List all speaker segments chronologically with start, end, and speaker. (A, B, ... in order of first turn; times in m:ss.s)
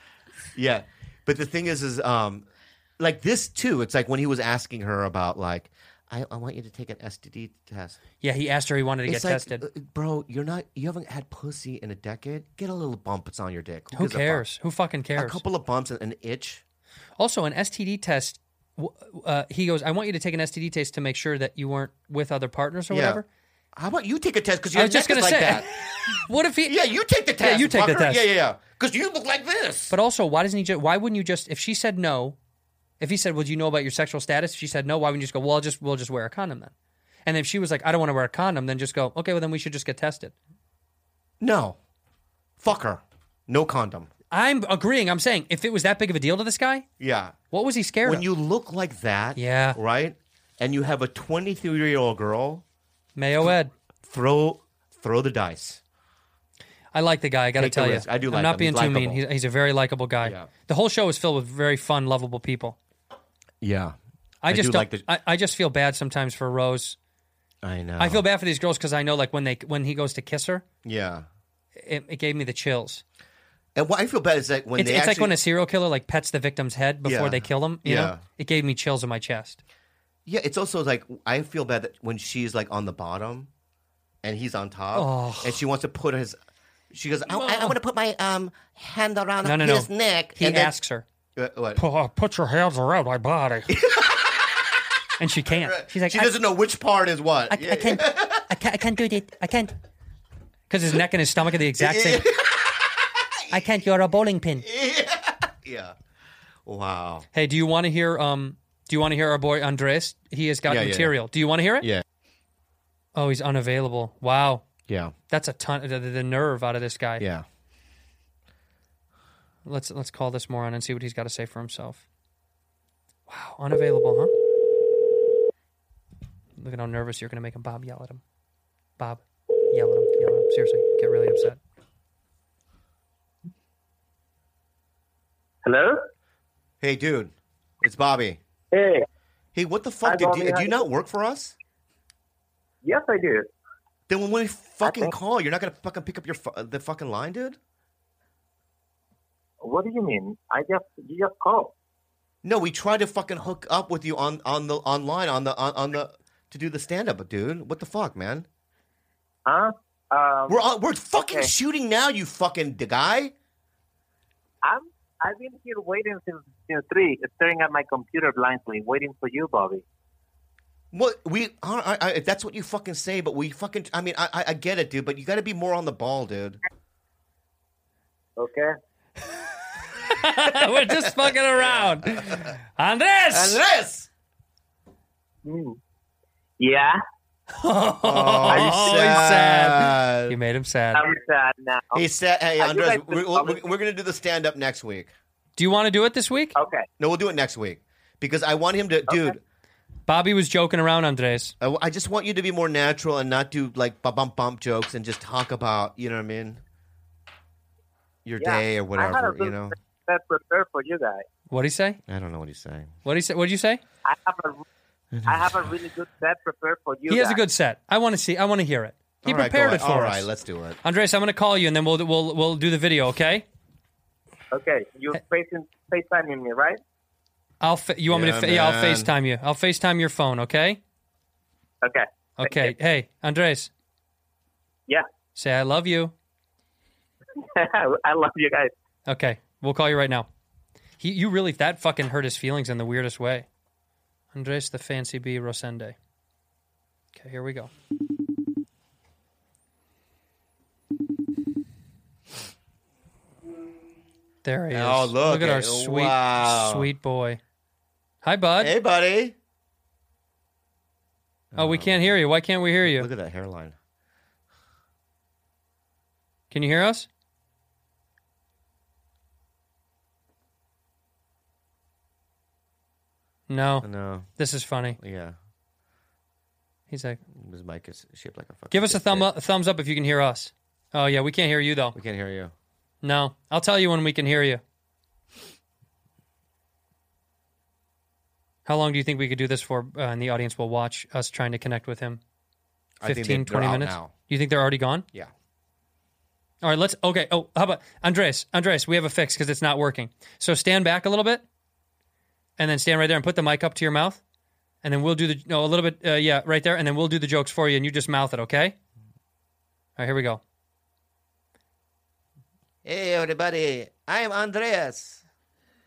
0:00.5-0:02.4 A
0:03.0-0:08.0 A
0:08.2-0:09.6 B
0:09.1-0:14.4 A
0:13.9-0:15.4 B
0:15.2-0:16.6 A
0:17.2-0:23.2 B
0:22.9-0:23.2 A
0:23.8-0:30.0 A
0:24.8-0:26.8 B
0:27.4-0:28.3 B
0:29.9-0:32.4 B
0:33.0-0:36.7 B
0:37.3-0:40.3 B
0:41.4-0:41.8 A
0:42.6-0:44.1 A
0:44.3-0:46.9 B
0:47.0-0:47.4 A
0:47.5-0:48.3 B
0:48.0-0:52.6 A
0:49.4-0:49.8 B
0:53.2-0:53.7 B
0:53.4-0:55.8 A
0:56.9-1:02.8 B
0:57.6-0:59.2 A
1:00.2-1:00.5 A
1:03.6-1:05.1 A
1:04.4-1:07.0 B
1:07.6-1:08.2 A
1:08.0-1:10.6 B
1:10.8-1:11.3 A
1:11.8-1:13.0 B
1:13.8-1:15.4 A
1:14.8-1:19.6 B
1:17.0-1:18.2 A
1:20.3-1:23.5 A
1:24.2-1:26.4 A
1:24.9-1:25.6 B
1:26.9-1:30.8 A
1:27.3-1:27.8 B
1:29.4-1:31.0 B
1:31.4-1:31.8 A
1:31.8-1:33.7 B
1:33.7-1:34.9 A
1:35.2-1:36.4 B
1:35.5-1:38.6 A
1:37.5-1:39.7 B
1:40.7-1:42.3 B
1:41.8-1:43.8 A
1:43.5-1:44.7 B
1:44.6-1:46.0 A
1:46.6-1:47.3 A
1:47.3-1:51.9 B
1:50.7-1:51.2 A
1:53.2-1:54.6 B
1:54.9-1:55.1 A
1:55.3-1:57.2 B
1:57.2-1:57.4 A
1:59.6-2:02.0 B
2:03.3-2:04.3 B
2:06.6-2:08.2 B
2:09.0-2:11.6 B
2:15.6-2:16.0 C
2:16.8-2:18.4 A
2:18.7-2:19.0 C
2:19.6-2:21.6 A
2:20.0-2:20.8 C
2:22.8-2:23.4 C
2:24.1-2:27.6 A
2:24.8-2:25.1 C
2:29.6-2:31.7 C
2:32.4-2:38.5 A
2:39.5-2:40.6 C
2:40.5-2:43.3 A
2:44.6-2:49.8 C
2:50.9-2:56.6 A
2:58.4-2:58.7 C
2:59.9-3:03.6 B
3:02.1-3:02.5 A
3:03.3-3:04.1 A
3:05.4-3:05.8 C
3:06.6-3:07.0 C
3:07.5-3:11.0 B
3:08.0-3:10.4 A
3:10.9-3:12.0 C
3:11.9-3:15.1 A
3:12.6-3:13.6 C
3:15.6-3:16.6 B
3:16.6-3:16.8 C
3:17.0-3:19.4 A
3:19.1-3:19.3 C
3:20.1-3:21.5 B
3:21.6-3:26.6 A
3:28.2-3:29.7 A
3:28.4-3:31.2 C
3:31.5-3:32.0 B
3:32.1-3:32.9 A
3:33.0-3:33.8 B
3:34.0-3:34.6 C
3:35.1-3:35.8 A
3:35.3-3:37.4 C
3:37.1-3:40.3 B
3:39.2-3:40.8 A
3:40.8-3:43.5 B
3:44.5-3:46.8 C
3:47.6-3:50.8 B
3:48.1-3:49.1 A
3:51.8-3:52.7 C
3:52.4-3:53.7 B
3:55.4-3:56.1 B
3:57.4-3:58.7 C
3:59.1-4:00.3 B
4:01.0-4:03.5 B
4:04.3-4:06.0 B
4:07.1-4:07.7 B
4:14.4-4:17.4 B
4:14.7-4:16.9 A
4:18.2-4:18.7 B
4:18.6-4:19.4 A
4:21.5-4:22.1 A
4:21.6-4:23.1 B
4:22.8-4:23.8 A
4:26.5-4:27.1 B
4:33.5-4:33.9 B
4:33.8-4:34.3 A
4:34.4-4:35.0 B
4:35.0-4:35.4 A
4:36.9-4:37.2 B
4:37.3-4:39.3 A
4:38.7-4:42.0 B
4:42.0-4:42.5 A
4:43.0-4:44.6 B
4:48.7-4:52.2 B
4:53.0-4:54.1 A
4:53.0-4:55.1 B
4:56.6-5:01.4 B
5:02.6-5:04.2 B
5:04.8-5:08.8 B
5:10.0-5:10.4 B
5:12.8-5:15.2 A